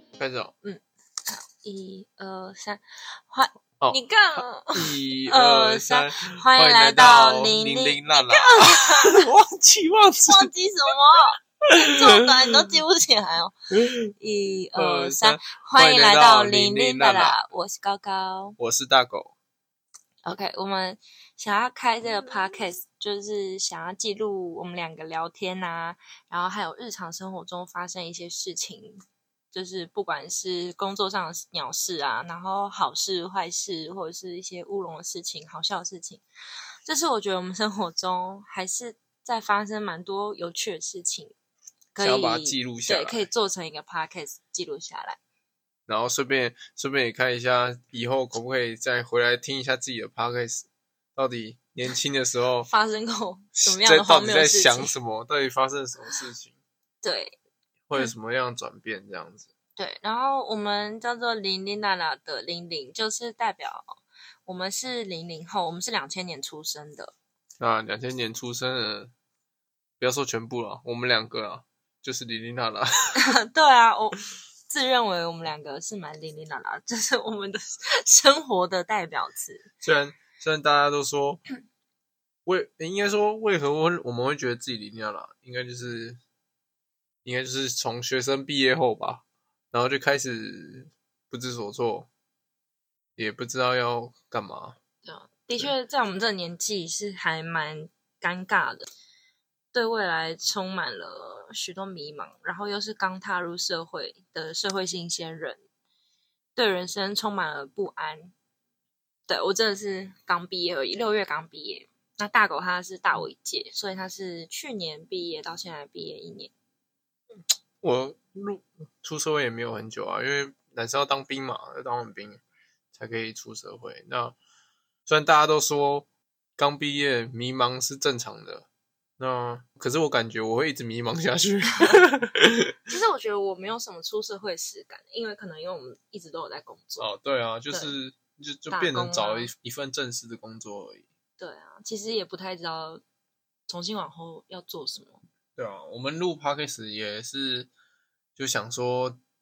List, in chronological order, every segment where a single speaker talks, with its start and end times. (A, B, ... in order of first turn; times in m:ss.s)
0:00.2-0:00.5 A
0:00.6-0:09.2 B
0:03.8-0:10.5 A
0:10.2-0:13.6 B
0:12.2-0:12.7 A
0:13.8-0:14.0 A
0:14.2-0:18.6 B
0:14.8-0:17.4 A
0:18.6-0:19.3 A
0:20.2-0:29.0 B
0:29.5-0:36.2 B
0:36.8-0:41.3 B
0:41.9-0:45.2 B
0:42.0-0:43.3 A
0:45.9-0:52.7 A
0:52.7-0:54.9 B
0:53.6-0:56.6 A
0:57.0-0:57.4 B
0:57.9-0:59.5 A
0:59.8-1:03.9 B
1:04.5-1:07.1 B
1:07.6-1:09.1 A
1:10.0-1:13.1 A
1:13.2-1:19.7 B
1:19.8-1:21.4 A
1:22.5-1:26.2 A
1:27.2-1:32.1 A
1:33.2-1:34.8 A
1:35.0-1:38.9 B
1:39.7-1:45.6 B
1:46.6-1:48.3 B
1:49.3-1:56.5 B
1:57.8-2:02.4 A
2:02.9-2:04.4 A
2:05.0-2:08.7 A
2:09.2-2:12.8 A
2:12.9-2:17.1 B
2:17.0-2:21.0 A
2:17.7-2:17.9 B
2:18.7-2:19.5 B
2:21.4-2:23.0 B
2:23.7-2:25.2 B
2:25.6-2:27.7 A
2:28.4-2:29.2 A